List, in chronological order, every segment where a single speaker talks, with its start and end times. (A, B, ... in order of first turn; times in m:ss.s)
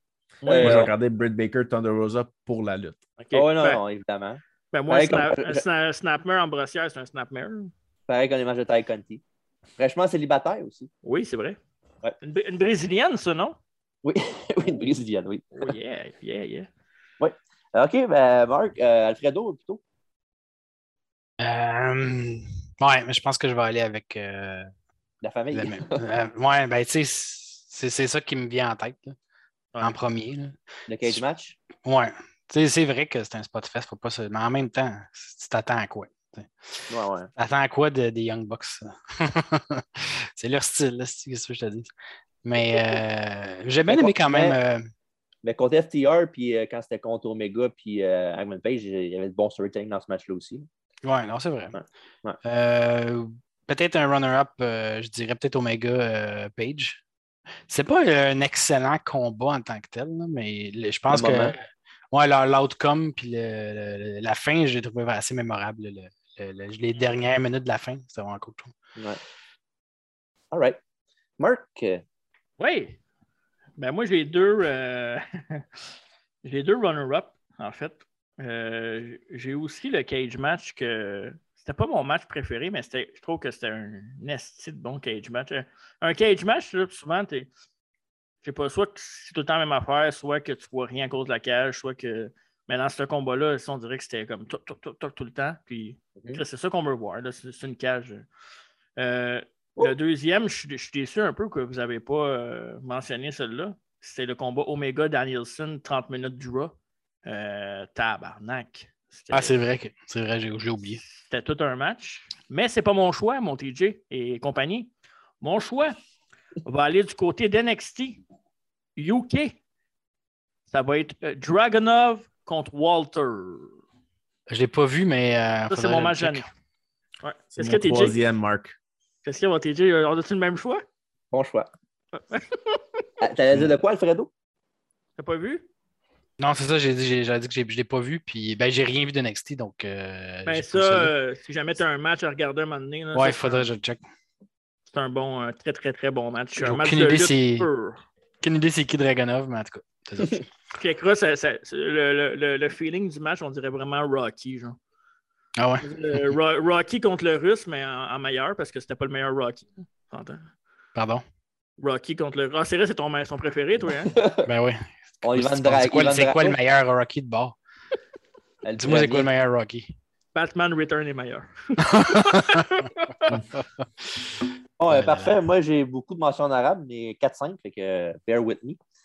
0:00.4-0:00.9 A
0:00.4-0:00.9 B
0:00.6-0:03.1 C
0:03.2-0:03.8 A
0:03.3-0:05.6 B
0:04.7-0:07.7 A
0:08.1-0:09.2 B
0:09.8-0:10.9 B
0:11.0-0:11.6 A
0:12.2-0:13.6 A
0:14.0-0:15.7 B
0:15.6-0:16.7 A
0:17.2-0:19.8 B
0:21.4-0:24.7 D
0:25.2-0:26.0 B
0:25.5-0:29.2 D
0:29.8-0:31.2 D
0:30.9-0:31.6 B
0:31.8-0:41.9 D
0:36.9-0:37.3 B
0:42.4-0:44.9 D
0:43.9-0:44.6 B
0:45.4-0:50.7 B
0:51.0-0:51.8 D
0:51.8-0:52.4 B
0:52.4-0:57.0 D
0:57.7-1:08.7 D
1:01.1-1:01.6 B
1:10.5-1:10.8 B
1:11.4-1:12.0 B
1:12.6-1:13.0 A
1:13.8-1:15.8 A
1:16.4-1:27.5 A
1:28.4-1:38.3 A
1:39.0-1:46.8 A
1:47.3-1:49.6 A
1:49.3-1:51.0 D
1:51.1-1:54.9 A
1:55.4-1:56.0 A
1:56.6-1:58.2 A
1:59.0-1:59.6 A
2:00.7-2:03.7 A
2:04.5-2:06.5 D
2:05.7-2:06.5 A
2:07.2-2:08.2 A
2:07.6-2:08.8 C
2:09.2-2:10.8 A
2:11.3-2:11.7 B
2:12.1-2:13.1 A
2:13.2-2:14.3 B
2:15.2-2:15.7 A
2:16.4-2:21.1 D
2:20.4-2:23.7 A
2:23.1-2:24.0 D
2:24.9-2:28.0 A
2:26.6-2:27.7 D
2:28.4-2:30.4 D
2:30.8-2:34.8 A
2:35.6-2:36.3 D
2:35.8-2:40.5 A
2:41.0-2:41.2 D
2:41.8-2:44.1 A
2:44.1-2:44.5 B
2:44.4-2:47.6 D
2:45.2-2:46.6 B
2:48.6-2:49.3 B
2:48.8-2:49.9 D
2:50.4-2:53.4 A
2:51.8-2:52.6 D
2:54.8-2:58.8 B
2:54.9-2:55.3 D